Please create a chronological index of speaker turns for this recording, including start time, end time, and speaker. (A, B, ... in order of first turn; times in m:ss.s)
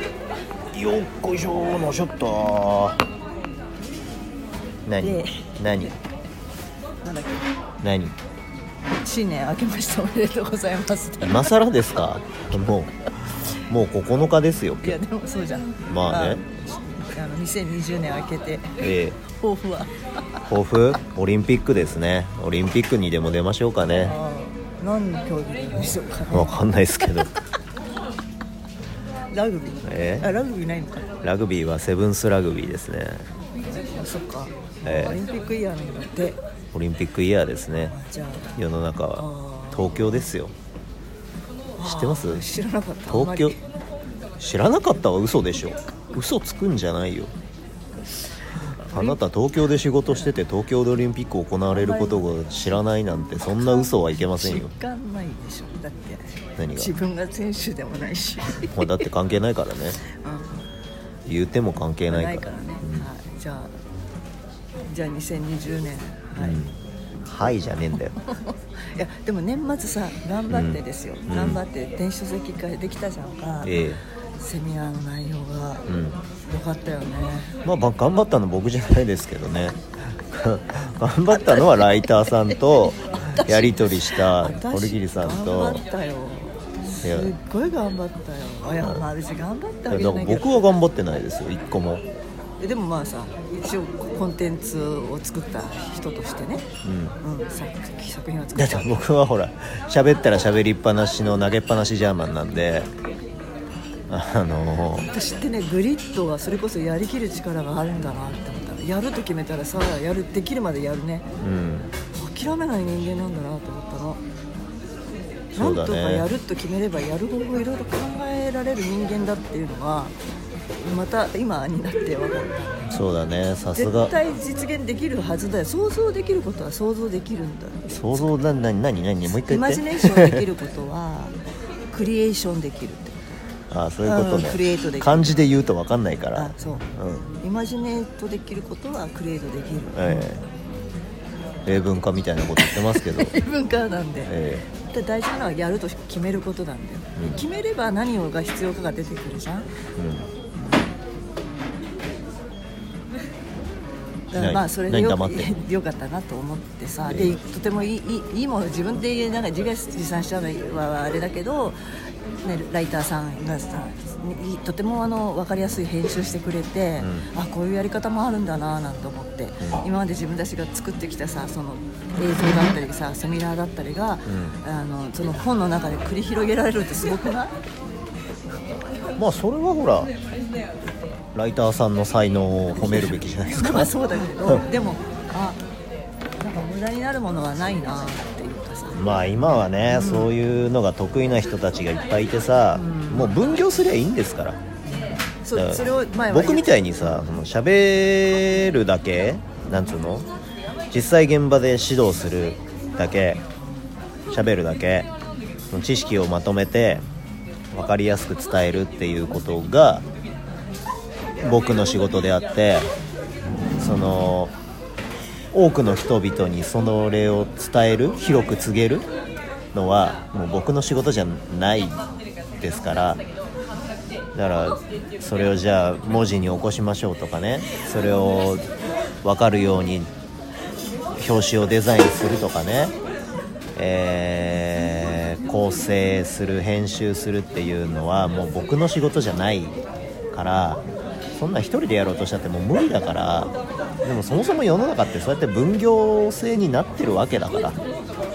0:00.7-0:03.0 A
0:04.8-0:05.9 A
0:05.0-0:05.9 B
0:07.0-0:07.5 B
0:07.8-0:08.1 A
0:08.9-0:11.5 B
0:11.2-0:12.9 A
0:13.6-0:15.0 A
0:14.8-0:20.4 B
0:15.9-0:16.4 A
0:18.8-0:19.2 A
0:20.5-0:24.1 A
0:23.9-0:27.4 B
0:26.3-0:27.3 A
0:29.3-0:31.2 B
0:29.8-0:30.3 A
0:31.2-0:33.3 A
0:33.8-0:36.4 B
0:34.8-0:35.2 A
0:36.7-0:37.9 A
0:37.8-0:38.6 B
0:38.6-0:40.5 A
0:39.2-0:40.2 B
0:41.8-0:43.6 B
0:41.8-0:42.4 A
0:43.1-0:43.5 A
0:44.4-0:47.3 A
0:48.9-0:49.1 B
0:48.9-0:54.7 A
0:51.7-0:52.2 B
0:53.6-0:58.9 B
0:56.6-0:56.9 A
0:58.7-1:00.0 A
1:00.0-1:00.6 B
1:01.2-1:03.1 A
1:02.1-1:03.8 B
1:04.9-1:06.6 B
1:06.4-1:08.2 A
1:08.2-1:13.8 B
1:10.5-1:11.6 A
1:13.6-1:14.0 A
1:14.4-1:15.8 B
1:15.9-1:16.2 A
1:16.4-1:17.6 B
1:17.6-1:25.8 A
1:23.2-1:30.6 B
1:27.0-1:27.3 A
1:28.8-1:29.1 A
1:29.9-1:32.0 A
1:32.6-1:36.6 B
1:36.8-1:37.2 A
1:37.2-1:39.0 B
1:38.6-1:42.9 A
1:44.1-1:45.1 A
1:44.9-1:51.3 B
1:51.4-1:51.9 A
1:52.1-1:54.2 B
1:55.5-2:00.2 B
1:55.6-1:56.2 A
2:00.7-2:02.8 B
2:02.8-2:04.1 A
2:03.7-2:08.3 B
2:07.9-2:10.4 A
2:09.3-2:11.4 B
2:11.9-2:13.4 B
2:13.7-2:17.3 A
2:14.0-2:15.5 B
2:16.3-2:16.9 B
2:17.4-2:20.3 B
2:19.9-2:20.4 A
2:21.6-2:23.4 A
2:22.6-2:29.7 B
2:24.3-2:24.6 A
2:27.2-2:27.4 A
2:30.0-2:30.3 A
2:30.5-2:30.9 B
2:34.3-2:41.8 B
2:34.4-2:35.6 A
2:37.1-2:37.4 A
2:42.4-2:57.6 B
2:47.0-2:47.2 A
2:49.6-2:49.9 A
2:54.3-2:54.6 A
2:59.2-3:00.1 A
3:01.3-3:03.9 A
3:02.8-3:05.6 B
3:06.4-3:10.3 B
3:08.9-3:14.6 A
3:12.7-3:13.4 B
3:14.9-3:17.2 B
3:15.5-3:20.3 A
3:20.9-3:23.4 A
3:24.3-3:25.1 A
3:25.7-3:27.1 A
3:27.7-3:30.0 A
3:31.4-3:32.9 A
3:33.8-3:34.5 A
3:35.5-3:39.0 A
3:39.7-3:42.0 A
3:42.6-3:43.2 A
3:44.3-3:48.6 A
3:49.2-3:50.1 A
3:51.2-3:52.9 A
3:53.7-3:59.8 A
4:00.3-4:00.8 A
4:01.3-4:03.5 A
4:04.0-4:07.8 A